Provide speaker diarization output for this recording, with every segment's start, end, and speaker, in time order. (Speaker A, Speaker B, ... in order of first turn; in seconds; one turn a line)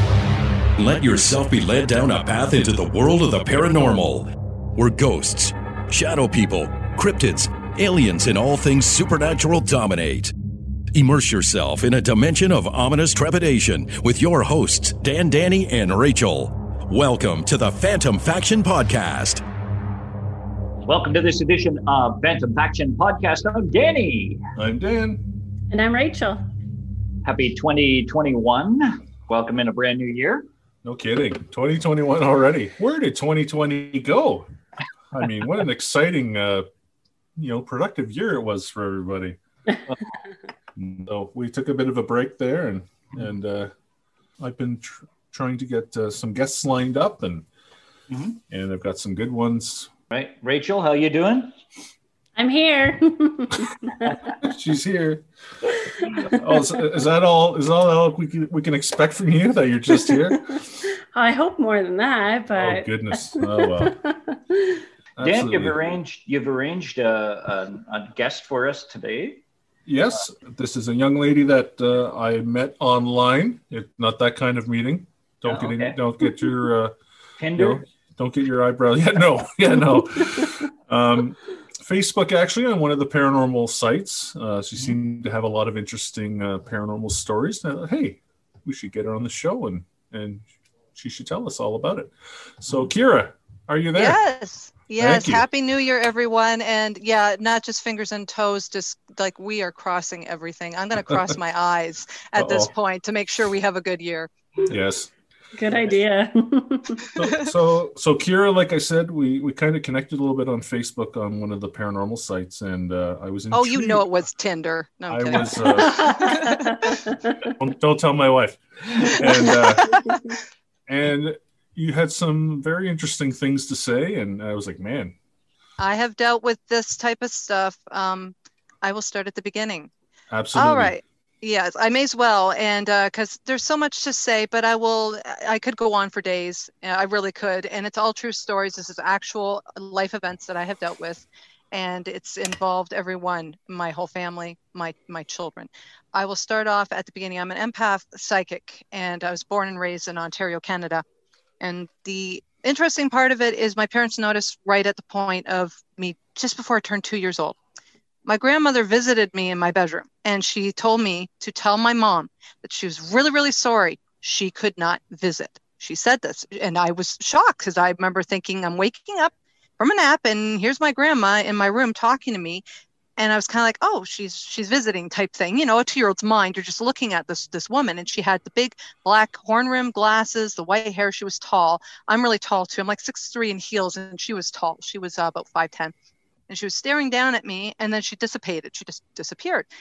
Speaker A: 0.8-10.3
Speaker A: 10.9-19.4
Speaker B: 20.8-24.4
Speaker C: 24.6-25.2
Speaker D: 25.7-26.4
Speaker B: 27.2-30.5
Speaker C: 30.8-34.5
Speaker C: 35.1-36.6
Speaker C: 37.4-40.0
Speaker C: 40.7-43.7
Speaker C: 44.4-47.5
Speaker B: 48.1-48.4
Speaker C: 48.5-49.9
Speaker B: 50.1-51.5
Speaker D: 52.4-54.1
Speaker C: 54.4-55.2
Speaker C: 56.0-60.6
Speaker D: 56.1-56.7
Speaker D: 60.0-64.8
Speaker C: 62.5-64.0
Speaker C: 65.2-66.0
Speaker B: 65.2-69.4
Speaker C: 69.8-77.0
Speaker B: 75.5-76.0
Speaker B: 77.4-77.8
Speaker C: 77.5-94.2
Speaker E: 94.0-104.3
Speaker C: 95.0-95.5
Speaker C: 102.4-102.7
Speaker C: 104.7-105.1
Speaker D: 105.5-107.1
Speaker C: 107.1-114.0
Speaker E: 113.5-116.8
Speaker C: 115.1-116.2
Speaker D: 115.8-117.5
Speaker C: 117.4-120.1
Speaker E: 119.0-120.1
Speaker C: 120.9-125.1
Speaker E: 125.8-129.9
Speaker C: 130.3-130.9
Speaker E: 130.5-151.0
Speaker E: 151.6-157.6
Speaker E: 158.2-172.6
Speaker E: 173.2-185.9
Speaker E: 186.5-189.7